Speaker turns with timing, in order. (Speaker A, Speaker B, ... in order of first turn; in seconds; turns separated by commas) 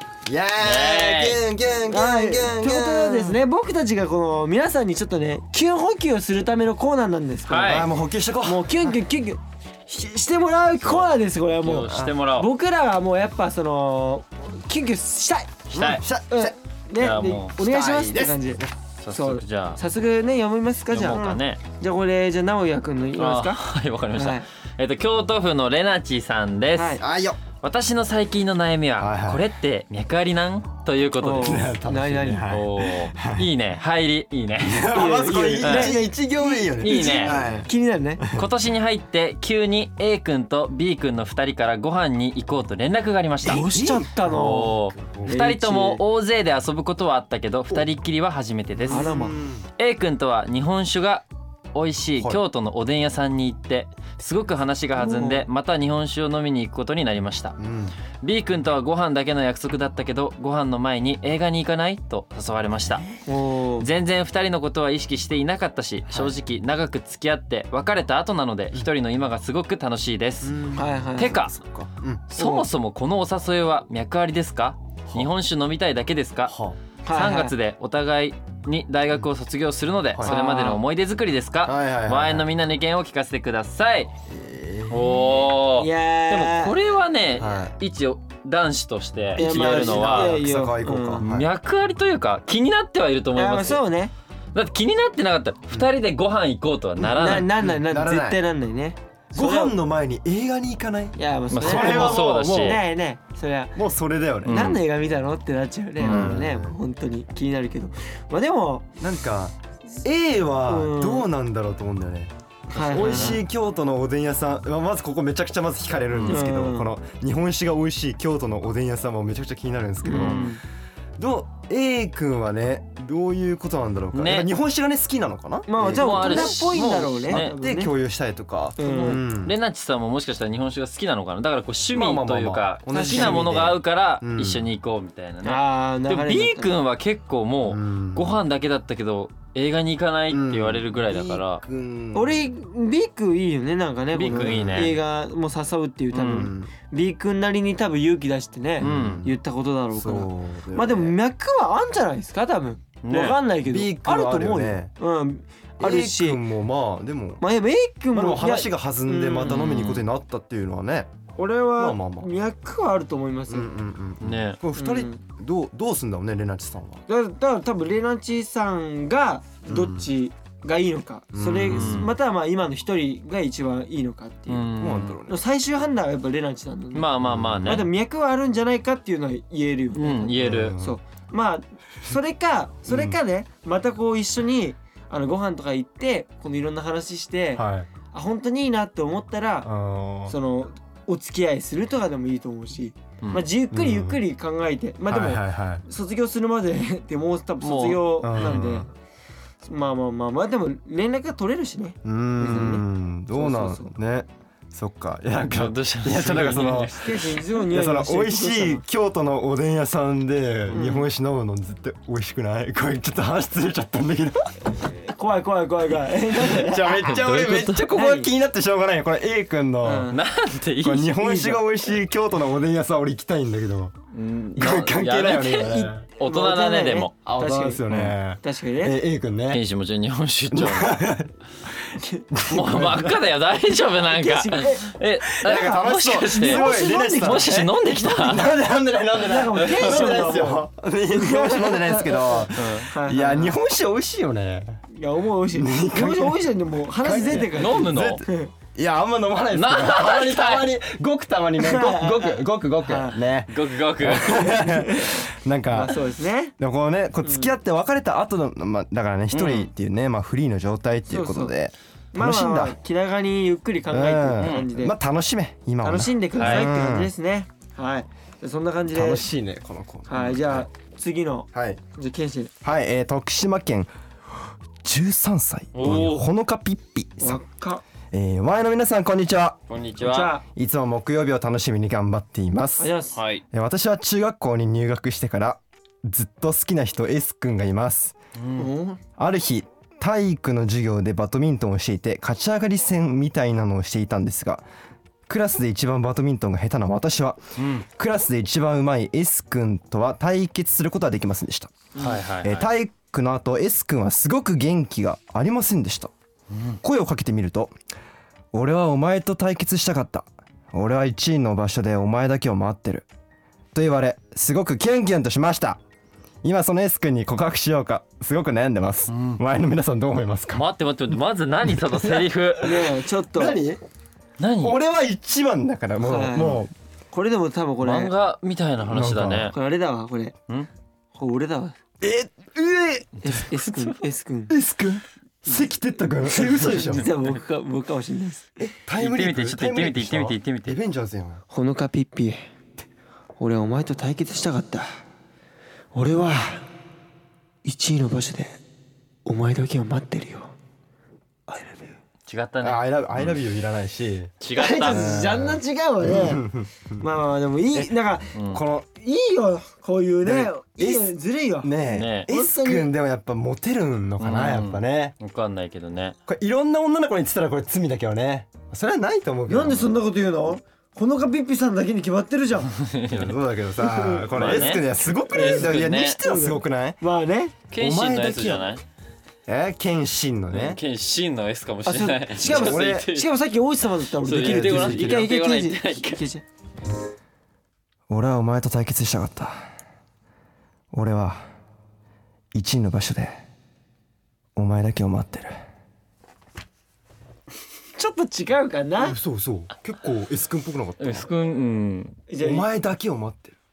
Speaker A: 0.2-3.4, Speaker B: 0.6-1.4, Speaker C: 1.9-7.9, Speaker B: 7.5-7.9, Speaker A: 7.6-8.9, Speaker C: 8.4-15.5, Speaker B: 10.8-12.5, Speaker A: 15.7-16.5, Speaker B: 15.7-16.0, Speaker C: 16.3-23.6, Speaker B: 17.0-17.6, Speaker A: 17.6-18.7, Speaker B: 19.0-19.8, Speaker B: 20.9-21.6, Speaker B: 23.2-27.0, Speaker C: 24.1-24.4, Speaker C: 26.7-27.0, Speaker A: 27.0-27.4, Speaker B: 27.6-31.7, Speaker A: 29.0-29.4, Speaker C: 31.2-32.5, Speaker A: 31.4-33.5, Speaker B: 32.5-34.8, Speaker A: 34.6-37.7, Speaker C: 34.9-38.2, Speaker B: 35.6-36.0, Speaker B: 36.8-37.4, Speaker A: 38.2-38.5, Speaker B: 38.3-43.7, Speaker C: 43.4-46.0, Speaker A: 43.5-45.4, Speaker B: 44.2-49.2, Speaker A: 48.8-49.7, Speaker C: 48.9-49.4, Speaker B: 49.8-57.5, Speaker C: 55.0-55.5, Speaker A: 57.6-58.0, Speaker B: 58.2-63.0, Speaker C: 63.2-63.9, Speaker B: 63.8-70.6, Speaker A: 66.1-66.3, Speaker A: 70.4-72.2, Speaker C: 70.7-71.4, Speaker B: 71.2-71.5, Speaker B: 72.3-76.5, Speaker C: 72.4-72.7, Speaker A: 76.5-76.8, Speaker C: 77.0-77.5, Speaker B: 77.1-84.1, Speaker C: 80.2-80.8, Speaker A: 81.6-82.5, Speaker A: 84.3-85.2, Speaker B: 84.9-90.4, Speaker C: 85.8-86.7, Speaker A: 87.4-87.7, Speaker A: 89.3-91.5, Speaker C: 89.4-91.2, Speaker B: 91.2-93.8, Speaker C: 93.3-94.1, Speaker B: 94.5-97.5, Speaker A: 97.0-98.4, Speaker C: 97.2-99.7, Speaker A: 99.3-102.8, Speaker C: 101.2-103.7, Speaker B: 101.5-102.8, Speaker A: 103.8-104.8, Speaker B: 104.4-104.8, Speaker C: 104.5-108.9, Speaker B: 106.0-106.3, Speaker A: 106.0-106.8, Speaker A: 109.0-120.5, Speaker C: 110.7-111.3, Speaker C: 112.7-113.4, Speaker B: 116.1-116.4, Speaker C: 116.3-116.9, Speaker C: 120.0-120.6, Speaker B: 120.1-120.5, Speaker A: 121.2-129.5, Speaker B: 124.1-124.5, Speaker C: 125.7-127.9, Speaker B: 125.9-127.5, Speaker C: 128.8-129.2, Speaker B: 129.0-141.6, Speaker A: 131.9-134.6, Speaker C: 132.9-133.5, Speaker C: 135.4-136.7, Speaker A: 137.7-138.4, Speaker A: 140.3-142.4, Speaker C: 142.1-156.4, Speaker B: 144.1-144.9, Speaker A: 144.3-144.9, Speaker B: 146.1-146.5, Speaker A: 146.2-146.7, Speaker B: 148.8-149.2, Speaker A: 148.8-149.3, Speaker A: 149.9-151.1, Speaker B: 153.0-153.4, Speaker A: 153.6-154.9, Speaker A: 155.8-157.4, Speaker C: 157.4-159.7, Speaker A: 158.1-161.1, Speaker B: 159.4-160.0, Speaker C: 161.3-163.7, Speaker A: 161.8-162.3, Speaker A: 163.5-167.0, Speaker B: 164.2-164.6, Speaker C: 164.8-165.2, Speaker C: 167.1-174.7, Speaker A: 169.7-170.1, Speaker A: 171.3-172.1, Speaker B: 171.7-172.1, Speaker B: 174.5-175.2, Speaker A: 174.8-175.4, Speaker C: 175.3-177.1, Speaker B: 176.9-177.9, Speaker A: 177.2-177.8, Speaker C: 177.6-189.7, Speaker B: 179.9-180.8, Speaker A: 180.3-181.0, Speaker A: 182.9-183.2, Speaker A: 187.6-187.9, Speaker A: 189.6-190.3, Speaker C: 190.3-198.9, Speaker A: 193.7-194.2, Speaker A: 195.1-195.8, Speaker B: 197.6-198.5, Speaker A: 198.2-198.8, Speaker C: 199.6-203.9, Speaker A: 202.0-214.5, Speaker B: 205.5-207.3, Speaker C: 206.9-208.8, Speaker C: 210.7-211.1, Speaker C: 215.0-217.1, Speaker A: 216.3-220.1, Speaker B: 217.0-217.9, Speaker C: 217.9-218.3, Speaker C: 219.8-220.2, Speaker B: 220.1-221.1, Speaker A: 220.8-223.9, Speaker C: 221.2-221.6, Speaker B: 224.1-227.2, Speaker A: 224.5-226.0, Speaker C: 225.6-227.8, Speaker A: 227.2-229.6, Speaker B: 227.9-228.1, Speaker C: 228.4-229.0, Speaker B: 229.5-231.0, Speaker A: 230.5-231.3, Speaker A: 231.9-233.2, Speaker C: 232.0-232.2, Speaker B: 232.5-238.5, Speaker C: 234.0-234.9, Speaker A: 235.3-244.8, Speaker C: 235.4-238.4, Speaker C: 239.2-243.6, Speaker B: 239.6-240.2, Speaker B: 242.5-242.9, Speaker C: 244.9-248.5, Speaker A: 245.5-246.4, Speaker A: 247.0-256.0, Speaker B: 247.5-248.2, Speaker B: 249.5-250.7, Speaker C: 251.6-253.2, Speaker B: 253.5-254.5, Speaker C: 254.2-256.5, Speaker A: 256.6-262.8, Speaker C: 257.2-257.5, Speaker B: 259.3-259.7, Speaker C: 261.1-261.5, Speaker C: 262.1-264.9, Speaker A: 263.9-267.1, Speaker B: 264.4-264.6, Speaker C: 265.8-269.2, Speaker B: 266.4-266.7, Speaker A: 268.9-270.7, Speaker C: 270.1-272.5, Speaker A: 271.5-271.8, Speaker A: 272.6-273.9, Speaker A: 274.8-277.4, Speaker B: 275.7-276.3, Speaker C: 277.2-277.8, Speaker A: 278.1-279.6, Speaker B: 279.7-280.3, Speaker C: 280.0-280.4, Speaker A: 280.5-282.9, Speaker C: 282.8-283.2, Speaker B: 283.1-283.4, Speaker A: 283.5-288.1, Speaker B: 288.4-288.7, Speaker C: 288.6-289.0, Speaker A: 289.2-294.6, Speaker A: 295.3-301.9, Speaker B: 297.6-297.8, Speaker C: 301.9-302.2, Speaker B: 302.0-302.7, Speaker A: 302.4-306.1, Speaker B: 306.5-306.8, Speaker A: 306.8-307.7, Speaker A: 308.5-313.1, Speaker A: 313.7-315.8, Speaker A: 316.4-320.6, Speaker B: 319.1-319.4, Speaker B: 320.5-322.9, Speaker A: 321.7-323.8, Speaker C: 322.6-323.6, Speaker B: 324.4-324.8, Speaker A: 324.6-326.7, Speaker C: 326.0-328.1, Speaker B: 327.8-329.5, Speaker A: 328.8-329.5, Speaker C: 329.5-330.3, Speaker C: 331.1-331.8, Speaker A: 332.0-333.2, Speaker C: 333.2-334.5, Speaker B: 333.5-333.9, Speaker A: 334.5-337.1, Speaker C: 336.2-338.5, Speaker A: 338.6-341.4, Speaker B: 339.0-340.8, Speaker C: 341.5-342.4, Speaker C: 343.4-344.9, Speaker C: 345.9-346.6, Speaker C: 347.6-348.6, Speaker C: 349.2-350.5, Speaker C: 351.5-351.9, Speaker B: 352.2-353.4, Speaker A: 352.6-354.3, Speaker B: 354.4-355.2, Speaker C: 354.5-356.5, Speaker A: 354.9-357.0, Speaker C: 357.0-358.4, Speaker B: 358.3-358.6, Speaker A: 358.5-358.9, Speaker C: 358.9-361.7, Speaker A: 360.2-361.1, Speaker A: 361.6-365.1, Speaker B: 361.9-362.3, Speaker C: 362.3-362.9, Speaker B: 364.2-366.1, Speaker A: 366.3-369.9, Speaker C: 369.5-372.7, Speaker B: 372.8-373.3, Speaker A: 373.1-377.0, Speaker C: 373.8-374.7, Speaker B: 374.3-376.2, Speaker C: 375.3-377.5, Speaker B: 377.7-378.8, Speaker A: 377.8-378.7, Speaker A: 379.5-380.8, Speaker B: 380.5-383.3, Speaker C: 381.9-386.4, Speaker A: 382.4-383.1, Speaker B: 384.2-386.2, Speaker A: 384.3-385.2, Speaker A: 388.1-389.6, Speaker A: 390.9-391.4, Speaker A: 392.5-393.4, Speaker A: 394.6-395.6, Speaker C: 397.9-399.2, Speaker A: 399.0-401.3, Speaker B: 401.0-402.2, Speaker C: 402.3-402.7, Speaker A: 402.4-403.6